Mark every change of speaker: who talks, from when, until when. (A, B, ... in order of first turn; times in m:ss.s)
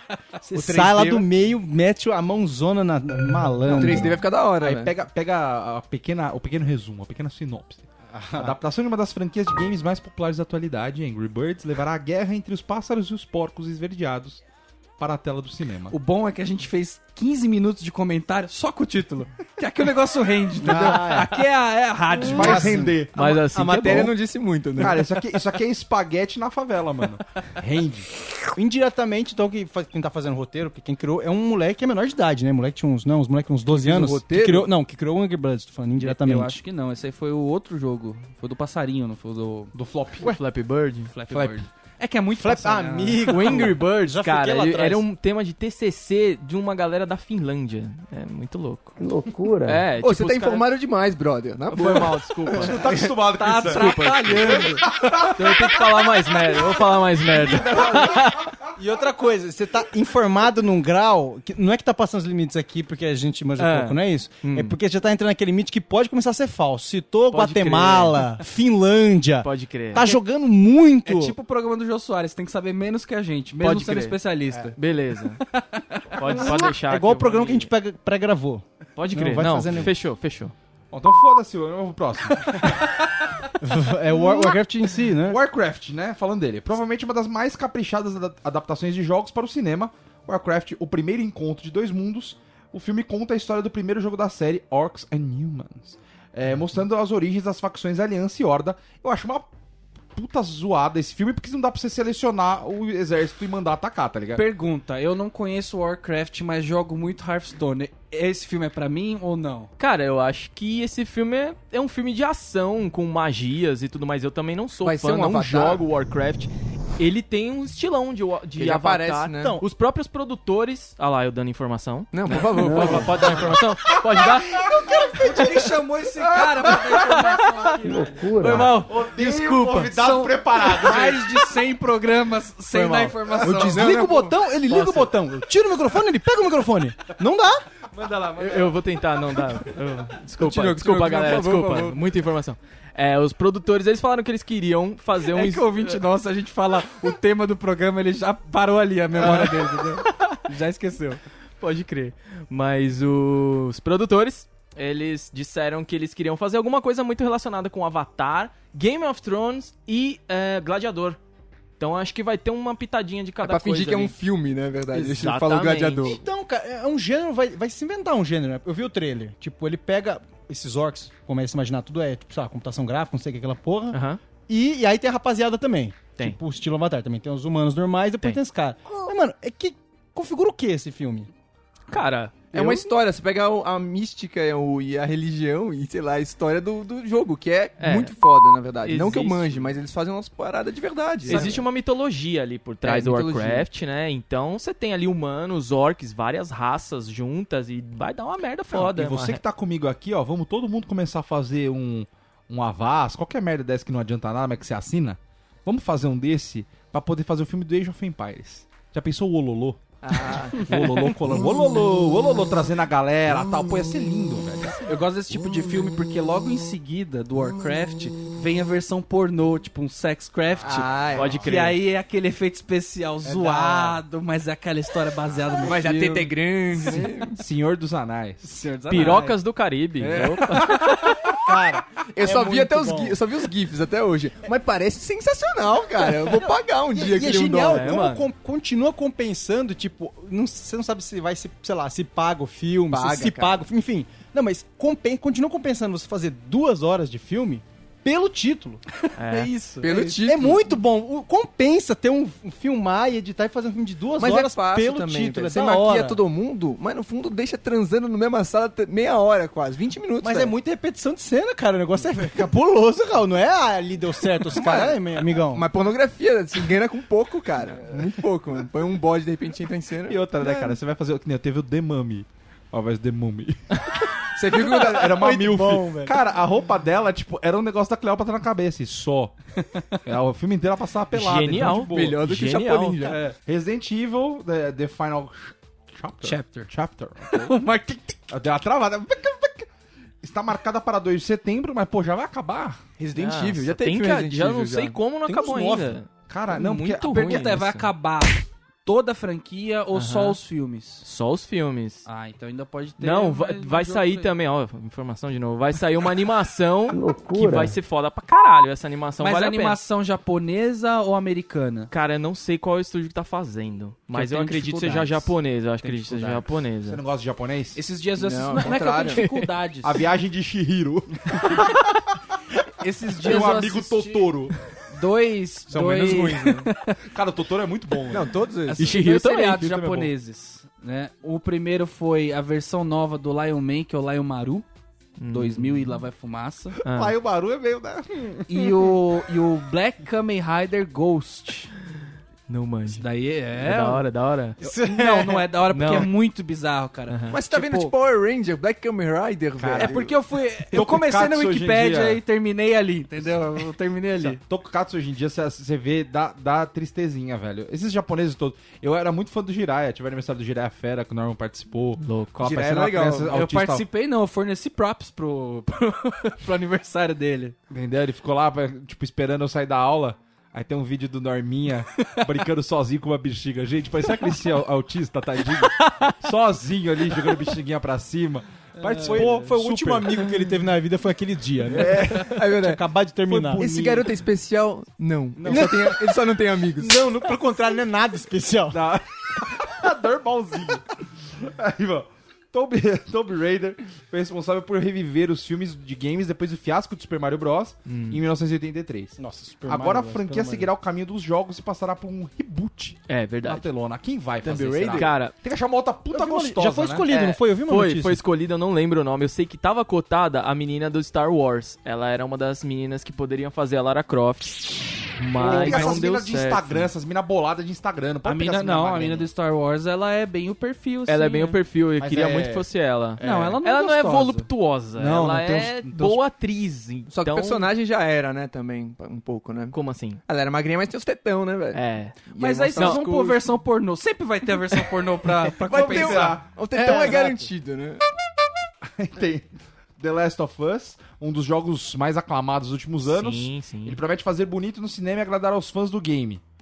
0:00.4-0:04.2 A
0:00.5-0:01.3 B
0:03.7-0:04.9 C
0:03.8-0:14.4 D
0:08.1-0:08.6 A
0:15.0-0:16.0 D
0:15.9-0:22.9 B
0:20.6-0:21.3 A
0:22.2-0:23.0 A
0:22.2-0:23.2 D
0:23.1-0:24.1 E
0:23.2-0:25.1 C
0:24.8-0:28.1 D
0:28.5-0:36.6 A
0:33.7-0:34.7 C
0:36.0-0:39.7 B
0:39.7-0:40.3 D
0:40.2-0:41.1 E
0:41.1-0:43.7 B
0:41.3-0:41.6 D
0:42.4-0:45.0 A
0:43.2-0:48.9 E
0:49.0-0:49.8 F
0:49.6-0:50.6 E
0:50.0-0:53.1 C
0:51.7-0:52.8 E
0:52.6-0:55.8 D
0:53.4-0:55.0 B
0:53.5-0:58.4 E
0:57.3-0:58.7 D
0:57.7-0:58.2 A
0:58.8-1:11.4 A
1:03.6-1:04.8 E
1:07.3-1:08.3 E
1:09.4-1:10.1 E
1:11.0-1:14.7 B
1:13.6-1:15.4 E
1:15.8-1:16.2 B
1:16.1-1:17.7 E
1:16.6-1:19.9 A
1:19.0-1:20.5 E
1:20.9-1:22.9 D
1:23.6-1:25.4 A
1:25.2-1:39.5 D
1:40.1-1:44.5 D
1:44.3-1:49.7 B
1:49.8-2:04.6 E
1:54.8-1:55.8 C
1:58.6-1:59.6 C
1:59.4-1:59.7 A
2:02.1-2:03.5 C
2:02.5-2:03.5 F
2:04.2-2:05.6 D
2:05.1-2:08.7 B
2:06.1-2:07.6 D
2:07.8-2:08.8 F
2:08.4-2:10.0 E
2:08.7-2:11.5 D
2:09.8-2:14.3 B
2:13.3-2:13.8 D
2:13.4-2:17.6 A
2:14.7-2:15.1 E
2:18.0-2:18.3 B
2:18.4-2:26.0 E
2:20.4-2:22.0 C
2:25.2-2:31.2 B
2:29.2-2:30.3 E
2:31.6-2:41.2 E
2:41.8-2:44.1 E
2:43.4-2:46.2 C
2:44.9-2:46.1 E
2:46.0-3:01.3 A
2:53.9-2:54.2 E
3:01.9-3:02.4 E
3:02.5-3:11.6 C
3:02.6-3:02.8 A
3:07.8-3:08.1 E
3:08.8-3:09.7 E
3:11.2-3:19.4 E
3:12.8-3:13.6 C
3:18.7-3:35.0 D
3:30.0-3:30.7 C
3:34.8-3:47.1 B
3:40.6-3:41.4 C
3:41.1-3:41.8 E
3:43.2-3:44.0 A
3:45.6-3:47.4 C
3:47.4-3:48.5 D
3:48.5-3:49.4 B
3:48.9-3:51.2 E
3:50.1-3:50.6 C
3:50.1-3:50.8 B
3:51.4-3:53.2 A
3:52.1-3:57.9 C
3:56.2-4:08.8 A
3:57.7-3:58.2 E
4:02.9-4:03.6 C
4:09.2-4:09.5 E
4:09.2-4:10.3 B
4:09.8-4:10.6 C
4:10.2-4:16.2 A
4:14.2-4:20.5 C
4:20.2-4:25.6 A
4:24.5-4:30.2 C
4:30.1-4:39.4 D
4:34.4-4:35.4 C
4:35.1-4:36.2 A
4:40.0-4:42.2 D
4:41.1-4:43.1 E
4:41.7-4:43.2 C
4:43.3-4:47.7 D
4:46.2-4:46.7 B
4:47.3-4:48.2 B
4:48.3-4:49.7 D
4:50.2-4:52.8 D
4:53.0-4:55.0 C
4:53.1-4:57.9 E
4:55.3-4:56.0 A
4:56.3-4:57.6 D
4:57.0-5:01.0 B
4:59.9-5:00.4 E
5:01.0-5:02.1 E
5:02.0-5:04.3 B
5:03.0-5:09.8 E
5:06.9-5:07.8 F
5:09.2-5:11.9 B
5:11.9-5:17.0 E
5:14.1-5:16.5 B
5:16.8-5:17.8 D
5:17.7-5:20.0 B
5:18.2-5:19.2 C
5:19.1-5:19.5 E
5:19.8-5:21.6 D
5:22.8-5:24.3 B
5:23.1-5:24.5 D
5:24.9-5:27.0 B
5:25.7-5:26.6 C
5:27.1-5:28.3 D
5:28.1-5:28.9 C
5:28.7-5:34.6 B
5:28.8-5:29.7 E
5:28.8-5:30.1 D
5:35.2-5:36.0 E
5:35.3-5:36.8 B
5:36.8-5:37.2 E
5:36.8-5:38.4 D
5:38.5-5:41.7 B
5:42.5-5:44.6 E
5:42.9-5:44.0 B
5:44.6-5:45.5 A
5:44.6-5:47.9 B
5:45.7-5:46.1 E
5:47.1-5:47.3 E
5:47.3-5:50.1 C
5:49.6-5:50.1 D
5:49.7-5:54.4 B
5:50.7-5:52.2 D
5:54.2-6:03.8 D
6:02.0-6:02.5 E
6:02.4-6:03.4 C
6:03.3-6:07.6 B
6:07.7-6:20.2 D
6:15.8-6:16.1 B
6:18.8-6:19.4 B
6:18.9-6:24.1 A
6:21.7-6:22.4 D
6:22.3-6:22.8 C
6:23.3-6:23.6 D
6:23.6-6:27.0 C
6:25.4-6:25.8 D
6:25.4-6:28.8 A
6:28.7-6:47.0 D
6:37.8-6:38.2 E
6:39.2-6:40.7 A
6:43.1-6:43.7 E
6:44.4-6:45.1 C
6:44.9-6:45.3 E
6:46.1-6:48.2 A
6:47.1-6:56.9 E
6:55.4-6:59.3 D
6:55.4-6:55.9 B
6:58.2-7:01.6 B
7:01.0-7:07.7 E
7:02.0-7:02.7 D
7:03.2-7:04.5 B
7:03.2-7:03.6 D
7:05.0-7:06.2 D
7:07.1-7:11.8 C
7:09.7-7:10.2 E
7:11.7-7:12.1 E
7:12.3-7:13.4 C
7:12.4-7:17.1 B
7:12.7-7:13.0 E
7:15.5-7:18.0 C
7:15.7-7:16.4 D
7:18.9-7:26.4 D
7:23.0-7:24.0 E